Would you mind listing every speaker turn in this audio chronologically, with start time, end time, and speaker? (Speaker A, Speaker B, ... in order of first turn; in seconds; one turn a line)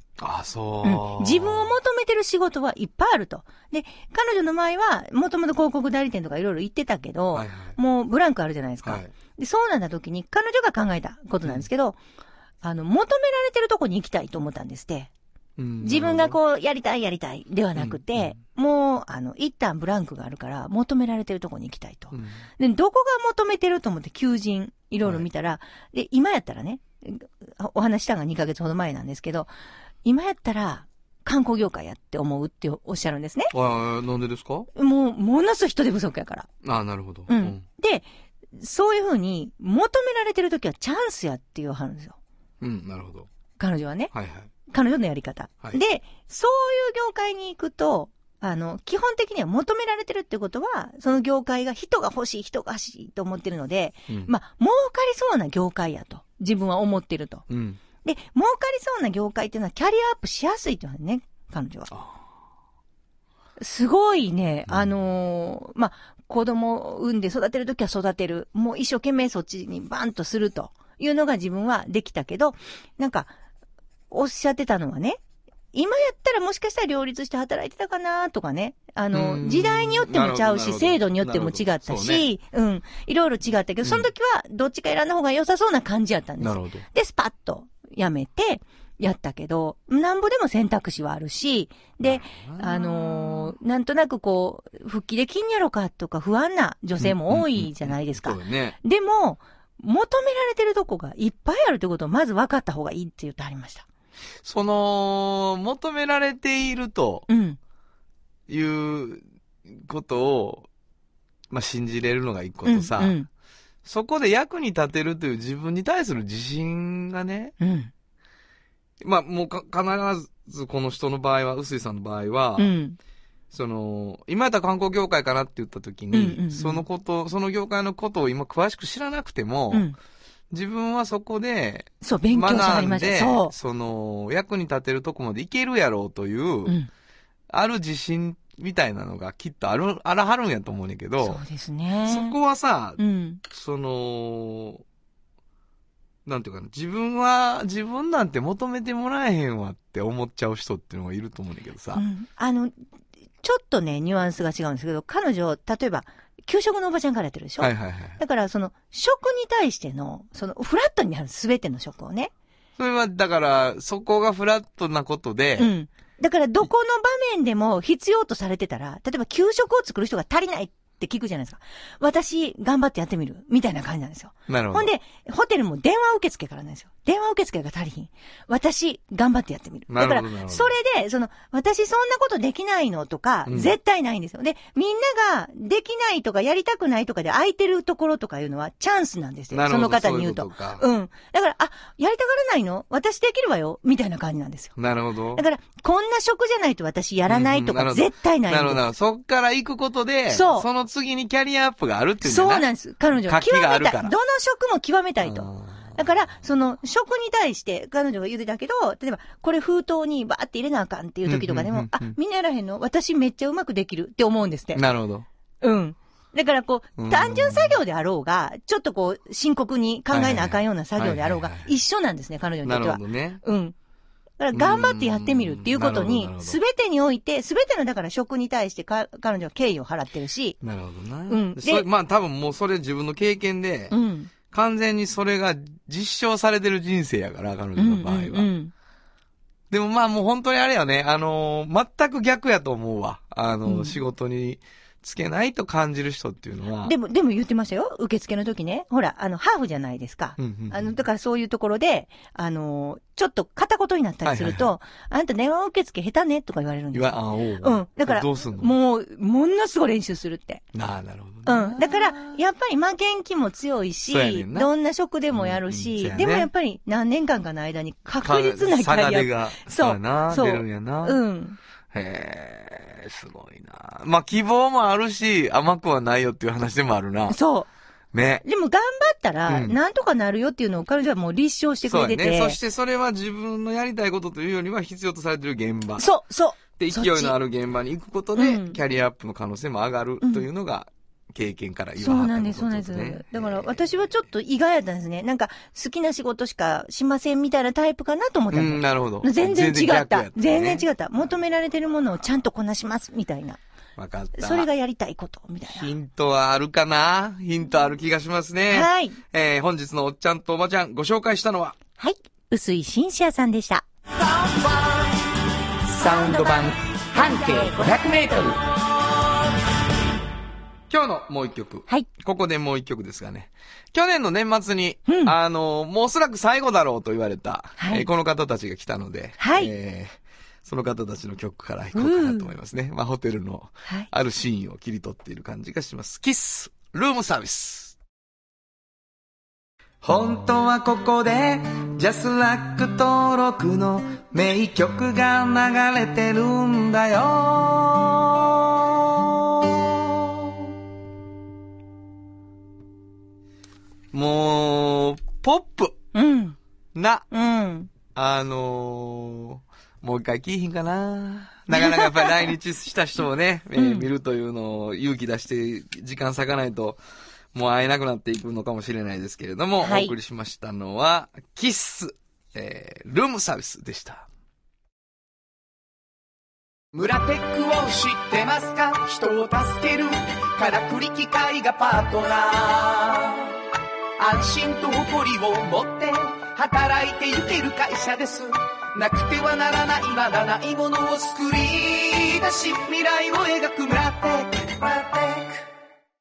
Speaker A: 0.2-1.7
Speaker B: 0.8-12.0
Speaker A: 7.3-7.8
Speaker A: 8.8-9.1
Speaker B: 12.6-15.1
Speaker A: 15.6-16.4
Speaker B: 15.8-29.5
Speaker A: 17.8-18.4
Speaker A: 22.1-22.4
Speaker B: 30.0-33.5
Speaker A: 33.5-34.7
Speaker B: 34.8-36.5
Speaker A: 36.6-37.6
Speaker B: 37.3-42.2
Speaker A: 42.6-43.3
Speaker B: 43.6-44.1
Speaker A: 44.1-44.5
Speaker B: 44.7-57.5
Speaker A: 57.5-57.8
Speaker B: 58.0-61.9
Speaker A: 61.9-62.2
Speaker B: 63.6-73.3
Speaker B: 74.1-75.2
Speaker B: 75.7-103.9
Speaker A: 79.1-82.3
Speaker A: 86.4-86.9
Speaker A: 92.0-93.5
Speaker A: 97.0-98.8
Speaker A: 104.4-107.3
Speaker B: 107.3-107.6
Speaker A: 108.5-110.7
Speaker A: 111.5-113.2
Speaker B: 112.7-113.3
Speaker A: 113.8-117.5
Speaker B: 117.6-117.9
Speaker A: 119.0-122.8
Speaker B: 122.6-123.0
Speaker A: 123.5-129.9
Speaker B: 126.1-126.8
Speaker B: 129.7-130.0
Speaker A: 130.5-136.8
Speaker B: 132.0-133.5
Speaker A: 137.5-141.4
Speaker B: 141.2-142.3
Speaker A: 142.1-144.8
Speaker B: 143.0-143.4
Speaker A: 146.3-152.0
Speaker B: 151.9-152.7
Speaker B: 153.4-162.3
Speaker A: 157.6-158.2
Speaker A: 162.8-165.7
Speaker B: 165.6-194.8
Speaker A: 174.5-174.9
Speaker A: 179.9-180.7
Speaker A: 183.5-183.8
Speaker A: 189.5-190.8
Speaker A: 194.8-195.4
Speaker B: 195.3-198.8
Speaker A: 197.3-204.1
Speaker B: 200.3-200.7
Speaker B: 202.2-214.8
Speaker A: 205.2-206.0
Speaker A: 211.3-212.2
Speaker A: 214.7-215.3
Speaker B: 215.6-223.8
Speaker A: 217.0-217.8
Speaker A: 220.1-221.7
Speaker A: 222.6-223.4
Speaker B: 224.4-230.6
Speaker A: 224.5-226.6
Speaker A: 230.6-234.0
Speaker B: 231.3-231.9
Speaker B: 233.9-234.3
Speaker A: 234.5-238.5
Speaker B: 237.8-238.7
Speaker A: 239.7-246.9
Speaker B: 243.7-244.0
Speaker B: 246.8-260.6
Speaker A: 250.4-251.0
Speaker A: 254.2-254.7
Speaker A: 256.9-258.8
Speaker A: 260.7-262.4
Speaker B: 261.4-271.6
Speaker A: 264.1-264.7
Speaker A: 265.3-266.5
Speaker A: 268.2-271.2
Speaker A: 271.9-277.4
Speaker B: 277.3-277.7
Speaker A: 278.1-278.4
Speaker B: 278.4-282.6
Speaker A: 279.5-279.8
Speaker A: 281.9-286.1
Speaker B: 286.0-287.4
Speaker A: 286.8-293.8
Speaker B: 288.4-288.8
Speaker B: 292.0-303.6
Speaker A: 298.5-300.9
Speaker A: 304.0-304.7
Speaker B: 304.4-305.9
Speaker A: 305.7-311.8
Speaker B: 308.7-309.2
Speaker B: 312.0-313.9
Speaker C: 314.2-315.1
Speaker C: 315.9-316.6
Speaker A: 316.0-318.4
Speaker C: 317.1-318.6
Speaker B: 317.5-318.1
Speaker A: 320.9-338.0
Speaker B: 325.1-325.4
Speaker B: 327.8-328.1
Speaker B: 329.4-329.7
Speaker B: 331.9-332.5
Speaker A: 340.0-349.9
Speaker A: 354.1-356.0
Speaker B: 356.1-356.6
Speaker A: 356.9-357.3
Speaker B: 357.3-357.9
Speaker A: 358.1-367.0
Speaker B: 361.7-362.5
Speaker B: 363.8-364.1
Speaker A: 367.5-374.3
Speaker B: 369.8-370.1
Speaker C: 376.9-383.6
Speaker C: 384.2-395.6